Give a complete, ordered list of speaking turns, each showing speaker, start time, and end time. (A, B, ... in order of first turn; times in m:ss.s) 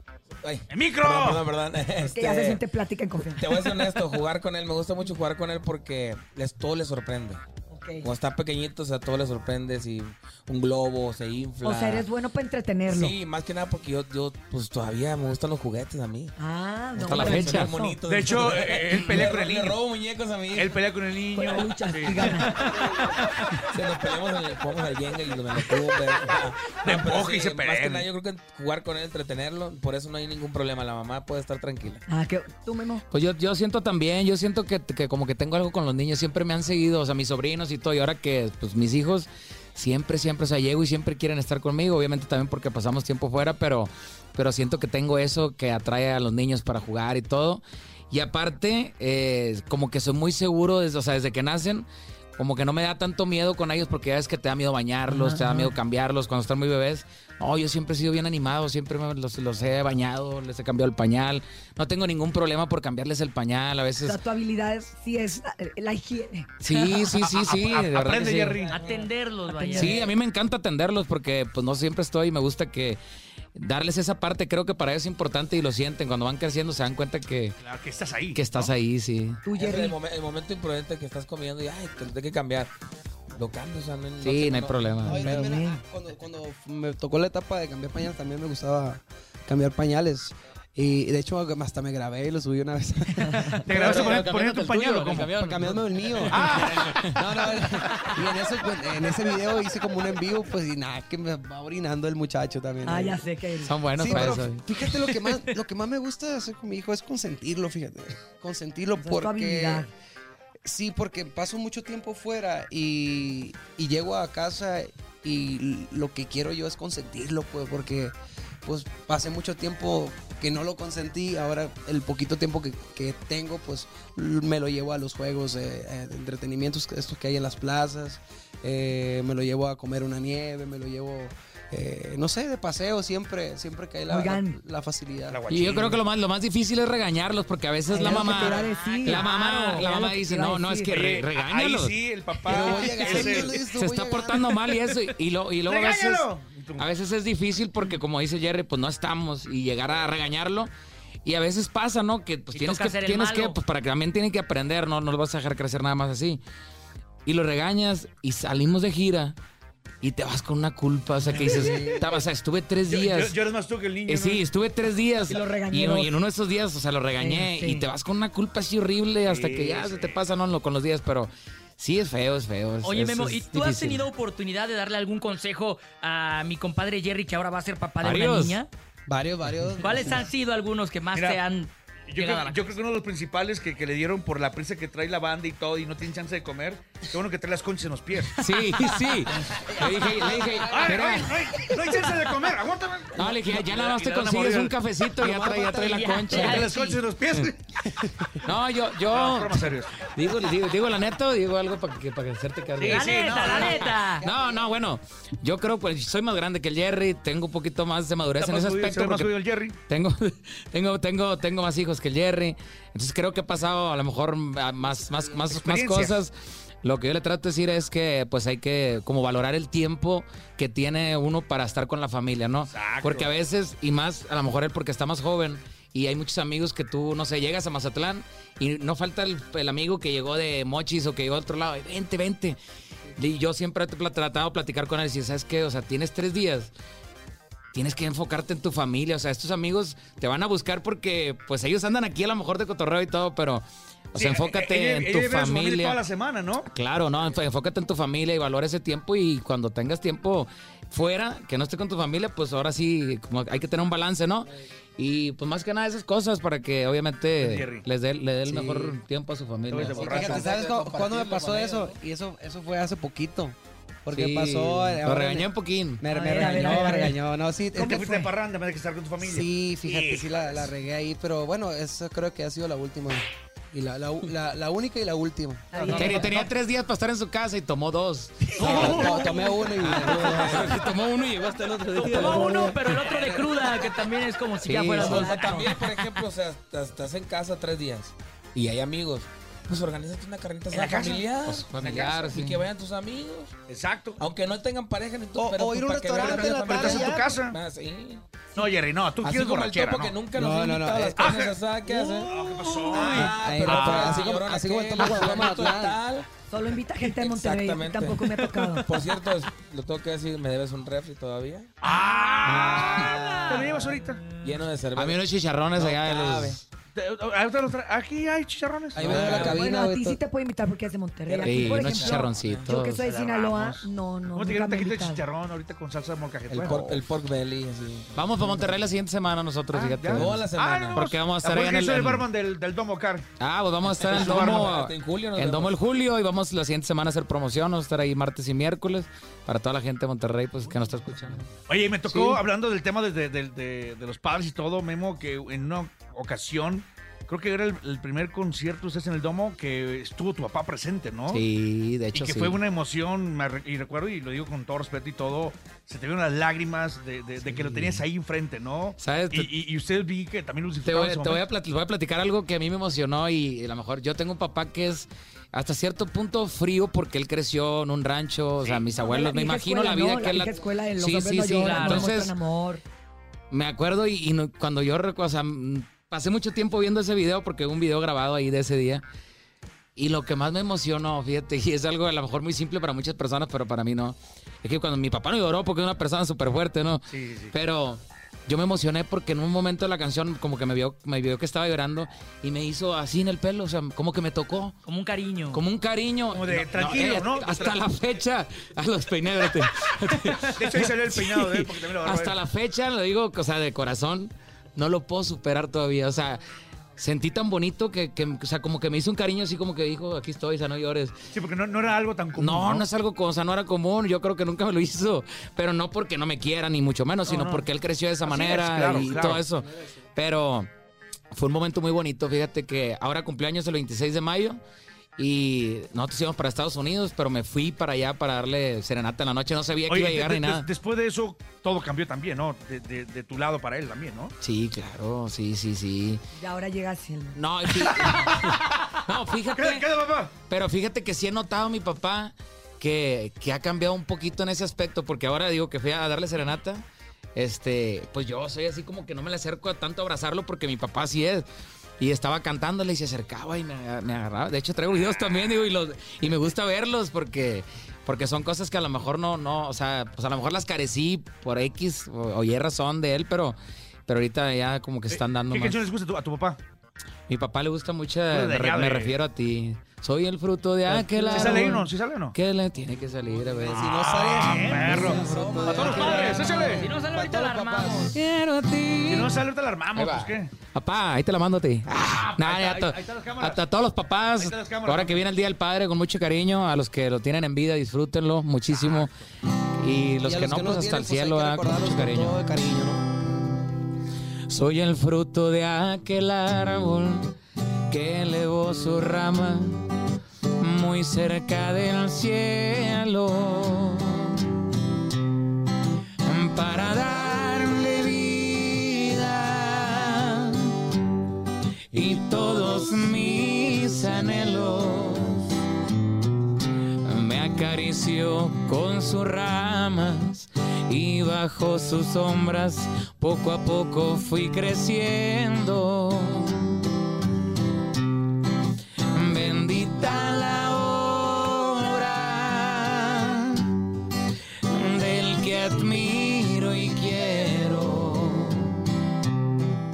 0:00.4-0:02.6 A
0:00.7-0:01.5 B
0:02.0-0:03.9 C
0:03.3-0:07.4 A
0:07.7-0:08.1 C
0:08.0-0:12.1 A
0:11.6-0:13.2 C
0:12.9-0:16.3 A
0:16.4-0:18.0 C
0:17.0-0:20.8 A
0:17.0-0:17.7 D
0:18.1-0:19.8 B
0:20.5-0:22.8 B
0:21.3-0:22.6 C
0:22.2-0:32.0 A
0:26.8-0:28.1 B
0:32.1-0:33.0 C
0:33.1-0:51.8 D
0:52.4-1:04.2 D
0:55.1-0:55.7 C
1:04.0-1:06.5 C
1:06.6-1:08.6 D
1:06.7-1:07.1 E
1:07.3-1:08.8 B
1:08.7-1:10.1 E
1:09.5-1:10.0 C
1:09.7-1:13.0 D
1:13.5-1:17.6 D
1:17.6-1:18.7 B
1:18.3-1:19.4 D
1:19.4-1:20.0 C
1:19.5-1:22.7 A
1:23.3-1:25.2 A
1:24.2-1:25.3 D
1:25.0-1:34.3 F
1:25.1-1:25.8 C
1:33.2-1:33.6 C
1:33.6-1:35.4 B
1:33.7-1:37.2 D
1:35.4-1:43.2 F
1:36.3-1:37.2 B
1:42.8-1:43.8 C
1:43.6-1:44.6 D
1:43.9-1:49.9 F
1:49.0-1:49.9 C
1:50.6-2:15.4 F
2:14.1-2:14.6 C
2:15.3-2:16.0 B
2:15.5-2:22.0 D
2:17.9-2:20.9 C
2:18.2-2:19.8 E
2:20.9-2:23.6 B
2:22.5-2:24.6 F
2:22.5-2:30.7 D
2:25.7-2:26.9 B
2:31.2-2:36.4 D
2:32.5-2:33.6 E
2:37.2-2:39.3 D
2:40.0-2:43.3 D
2:41.4-2:42.0 B
2:41.4-2:42.1 F
2:42.9-2:44.4 B
2:44.1-2:54.0 D
2:45.3-2:46.1 C
2:47.2-2:47.9 C
2:49.3-2:50.2 B
2:52.8-2:58.7 E
2:58.0-2:58.6 D
2:59.1-3:00.2 F
2:59.8-3:02.7 E
3:01.1-3:01.4 B
3:02.1-3:08.4 B
3:08.4-3:11.8 D
3:09.5-3:11.0 F
3:10.6-3:14.7 B
3:13.1-3:16.7 D
3:15.1-3:16.6 F
3:15.9-3:17.0 E
3:16.3-3:17.8 B
3:18.0-3:18.2 F
3:18.4-3:29.3 D
3:19.1-3:20.1 B
3:22.8-3:23.9 B
3:22.8-3:24.2 E
3:24.2-3:24.8 F
3:28.4-3:29.8 B
3:29.9-3:52.6 D
3:35.4-3:36.1 B
3:42.7-3:43.3 B
3:53.2-3:56.7 D
3:57.7-4:06.0 D
4:04.2-4:06.7 B
4:06.7-4:20.2 D
4:17.4-4:17.8 B
4:18.4-4:19.0 F
4:19.7-4:20.5 B
4:19.9-4:22.0 A
4:20.0-4:28.3 F
4:24.1-4:26.0 D
4:26.1-4:27.2 C
4:27.8-4:30.7 B
4:27.8-4:28.2 C
4:29.2-4:36.1 F
4:35.7-4:36.4 C
4:35.7-4:36.5 B
4:35.9-4:43.0 D
4:38.5-4:39.6 B
4:38.6-4:40.8 F
4:38.7-4:39.2 A
4:39.9-4:40.8 A
4:41.9-4:43.2 F
4:42.0-4:45.7 E
4:44.6-4:45.8 D
4:44.9-4:53.6 A
4:45.1-4:45.6 C
4:50.7-4:51.3 B
4:51.4-4:52.6 D
4:53.7-4:54.2 B
4:54.2-4:58.2 A
4:55.3-4:57.3 F
4:56.1-4:57.6 B
4:58.5-5:00.2 B
4:59.2-5:06.3 A
5:00.3-5:01.3 F
5:01.2-5:04.4 B
5:02.9-5:06.0 F
5:06.5-5:08.9 C
5:07.0-5:11.7 A
5:11.8-5:14.2 B
5:11.9-5:13.9 E
5:12.4-5:13.4 A
5:14.4-5:15.2 A
5:14.9-5:16.6 D
5:15.8-5:16.6 A
5:16.9-5:19.4 B
5:18.9-5:20.2 F
5:19.0-5:19.6 A
5:19.3-5:25.2 C
5:21.3-5:22.7 A
5:21.4-5:23.0 D
5:23.0-5:27.0 B
5:26.5-5:28.7 A
5:28.1-5:32.3 D
5:29.7-5:33.2 B
5:30.1-5:31.0 A
5:33.4-5:41.5 D
5:34.0-5:35.8 A
5:34.0-5:34.8 B
5:41.7-5:51.4 B
5:42.0-5:42.4 D
5:51.3-5:52.6 D
5:52.1-6:01.4 B
5:57.4-5:58.0 D
5:59.0-5:59.5 D
6:00.8-6:12.3 D
6:08.6-6:08.9 B
6:08.9-6:12.8 C
6:11.6-6:12.2 E
6:13.5-6:19.0 D
6:20.0-6:34.8 D
6:27.1-6:27.5 B
6:34.8-6:35.6 E
6:35.5-6:46.4 D
6:36.3-6:37.8 B
6:40.6-6:42.4 B
6:47.0-6:51.1 D
6:51.3-6:52.8 B
6:52.4-7:00.7 D
6:57.3-6:57.6 B
6:58.2-6:59.4 B
6:59.6-7:00.0 F
7:01.3-7:04.6 D
7:05.2-7:10.7 D
7:09.9-7:14.3 B
7:14.4-7:16.2 D
7:16.3-7:17.4 C
7:17.4-7:19.8 D
7:17.8-7:19.0 B
7:19.5-7:20.3 B
7:20.5-7:31.4 D
7:32.0-7:45.9 D
7:45.1-7:46.6 B
7:47.3-7:56.7 D
7:48.3-7:49.1 B
7:50.9-7:51.7 F
7:51.3-7:52.3 B
7:53.4-7:58.2 F
7:53.6-7:56.9 B
7:56.2-7:58.2 E
7:58.1-8:09.1 D
7:59.1-8:00.5 B
8:02.0-8:03.6 B
8:04.4-8:05.2 B
8:08.7-8:09.1 B
8:09.8-8:12.4 D
8:10.2-8:13.0 F
8:14.5-8:17.3 D
8:17.9-8:19.9 D
8:20.6-8:24.4 D
8:26.2-8:30.7 D
8:31.9-8:35.5 D
8:37.0-8:46.8 D
8:49.1-8:53.7 D
8:54.6-8:58.8 D